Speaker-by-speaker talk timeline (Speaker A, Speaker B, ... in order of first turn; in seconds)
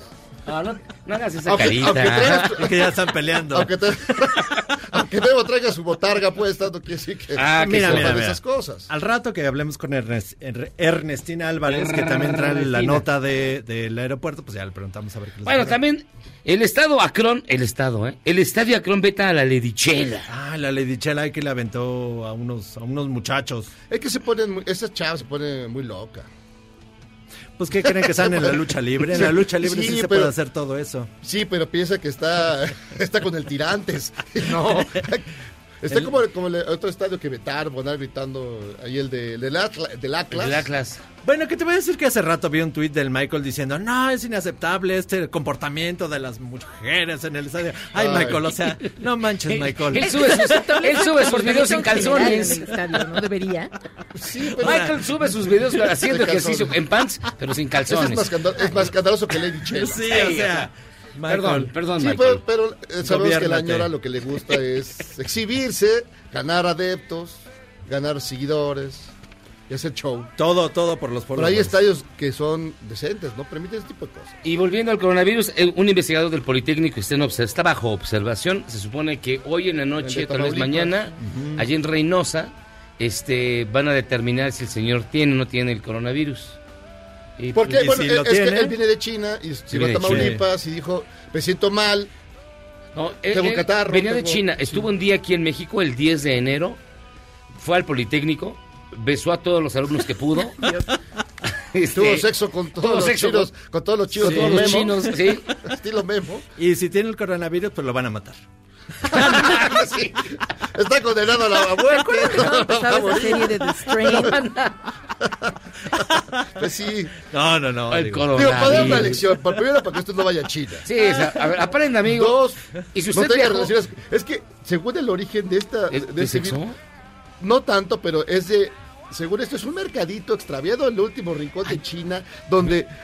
Speaker A: 0.5-2.5, 7.3-8.3, 11.7-13.0, 15.4-20.3, 40.3-41.0, 49.5-52.6, 54.6-58.2, 60.0-60.7, 61.3-62.4, 74.4-86.6, 87.4-87.6, 89.7-90.4, 92.9-96.8, 97.6-100.7, 101.7-102.3, 102.8-103.5, 104.1-105.5, 109.2-110.2, 114.1-114.8, 117.9-119.2, 120.8-122.4, 122.9-123.7, 125.9-126.7
Speaker B: 1.4-2.9, 3.5-8.9, 23.9-26.3, 27.9-30.3, 31.2-40.7, 48.0-48.5, 54.2-54.9, 56.1-56.7, 57.9-60.0, 62.0-69.1, 69.7-70.3, 71.3-74.4, 80.0-80.9, 87.5-92.1, 93.3-94.4, 101.9-106.5, 109.2-110.2, 110.7-114.1, 115.2-115.5, 116.5-117.2, 118.3-120.8, 122.0-122.6, 123.1-126.6, 127.4-132.9
Speaker C: 2.4-3.7, 7.5-15.8, 20.3-23.7, 27.6-31.1, 41.2-50.8, 52.1-52.5, 54.6-54.9, 59.7-61.7, 63.0-63.9, 70.4-71.8, 81.2-81.7, 87.6-88.8, 90.0-90.4, 104.2-105.1, 106.6-108.5, 117.2-119.2
Speaker D: 50.3-53.7, 111.9-114.3